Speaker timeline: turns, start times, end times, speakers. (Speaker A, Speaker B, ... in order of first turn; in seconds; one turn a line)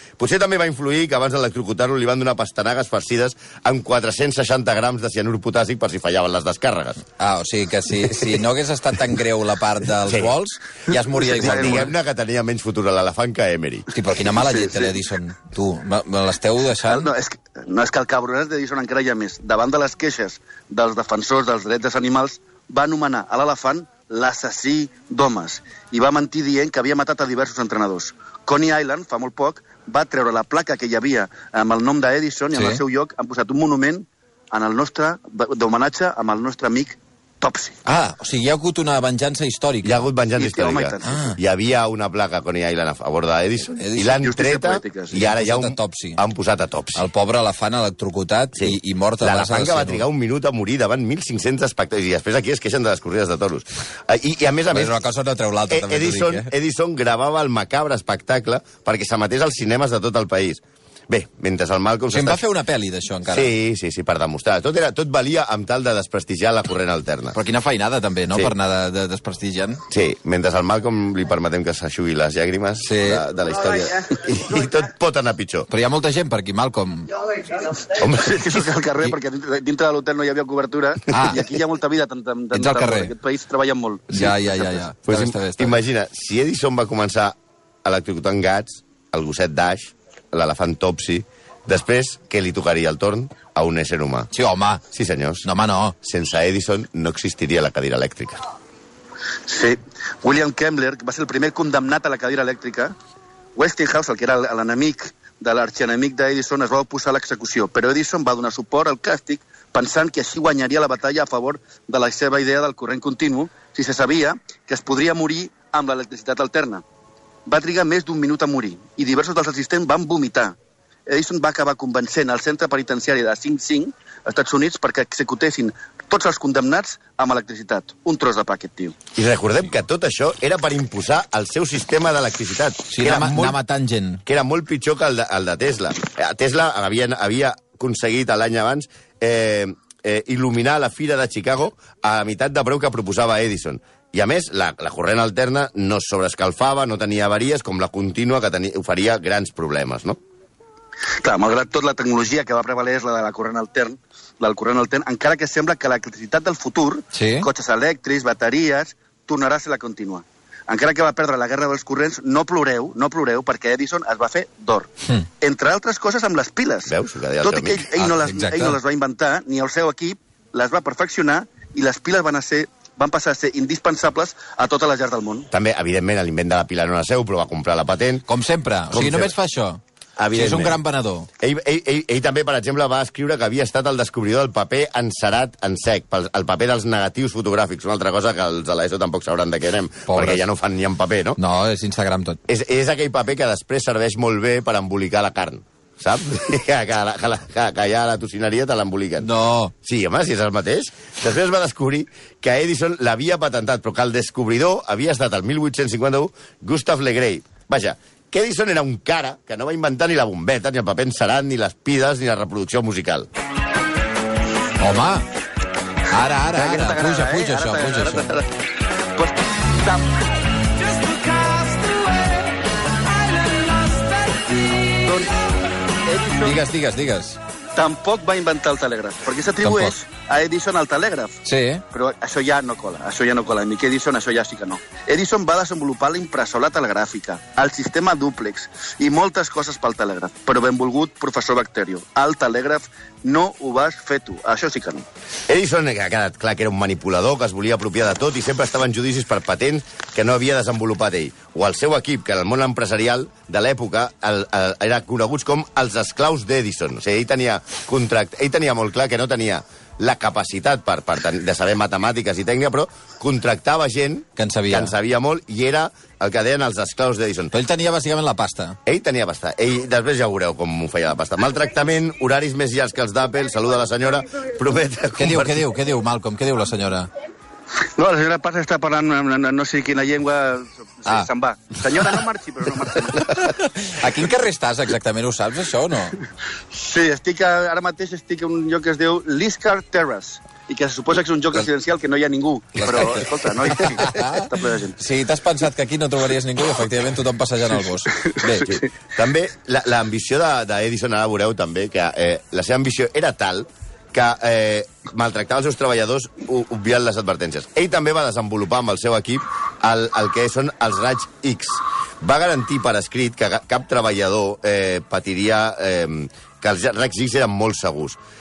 Speaker A: 0.2-7.0
Speaker B: 7.2-11.9
Speaker A: 10.1-10.3
Speaker C: 11.2-11.9
Speaker A: 11.3-13.9
Speaker B: 13.9-17.1
Speaker C: 14.3-14.9
Speaker C: 16.8-37.8
Speaker B: 32.5-32.8
Speaker B: 37.9-40.0
Speaker A: 39.8-47.1
Speaker C: 40.4-41.3
Speaker B: 41.0-41.4
Speaker B: 43.8-44.2
Speaker C: 44.2-45.2
Speaker B: 45.1-46.2
Speaker B: 47.0-50.0
Speaker A: 48.6-54.9
Speaker B: 54.7-56.5
Speaker A: 55.7-62.4
Speaker B: 62.1-63.5
Speaker A: 63.3-67.4
Speaker B: 67.3-69.8
Speaker A: 69.9-75.7
Speaker B: 72.8-73.2
Speaker B: 75.7-77.2
Speaker A: 77.8-78.6
Speaker C: 78.1-84.8
Speaker B: 81.1-81.5
Speaker B: 82.5-83.1
Speaker B: 84.1-85.7
Speaker A: 85.1-94.3
Speaker B: 94.3-94.8
Speaker A: 94.9-95.5
Speaker B: 95.5-96.0
Speaker A: 96.0-98.4
Speaker C: 99.5-102.9
Speaker C: 103.5-116.8
Speaker C: 117.5-120.6
Speaker C: 121.1-129.0
Speaker A: 129.2-133.6
Speaker B: 132.9-134.2
Speaker A: 134.3-150.2
Speaker C: 151.2-175.5
Speaker B: 157.1-157.5
Speaker A: 166.9-167.9
Speaker B: 168.0-168.8
Speaker A: 175.5-178.2
Speaker B: 178.3-179.8
Speaker A: 178.9-179.3
Speaker A: 180.2-180.8
Speaker B: 180.3-181.3
Speaker A: 181.4-191.4
Speaker B: 190.1-190.4
Speaker B: 191.4-192.4
Speaker A: 192.5-199.3
Speaker B: 199.2-199.7
Speaker A: 199.8-213.3
Speaker B: 214.8-215.3
Speaker B: 216.1-218.4
Speaker C: 216.5-218.5
Speaker C: 219.2-220.3
Speaker C: 220.9-222.4
Speaker C: 223.3-224.0
Speaker C: 224.9-225.5
Speaker C: 226.0-226.6
Speaker B: 226.4-227.4
Speaker C: 227.8-231.4
Speaker B: 229.6-230.0
Speaker B: 231.4-231.8
Speaker C: 231.9-245.1
Speaker A: 245.5-267.5
Speaker B: 264.4-264.9
Speaker B: 267.5-268.8
Speaker A: 268.9-275.6
Speaker B: 275.2-277.1
Speaker C: 277.8-283.3
Speaker B: 283.2-286.2
Speaker C: 286.7-295.0
Speaker B: 292.8-298.8
Speaker A: 298.6-318.2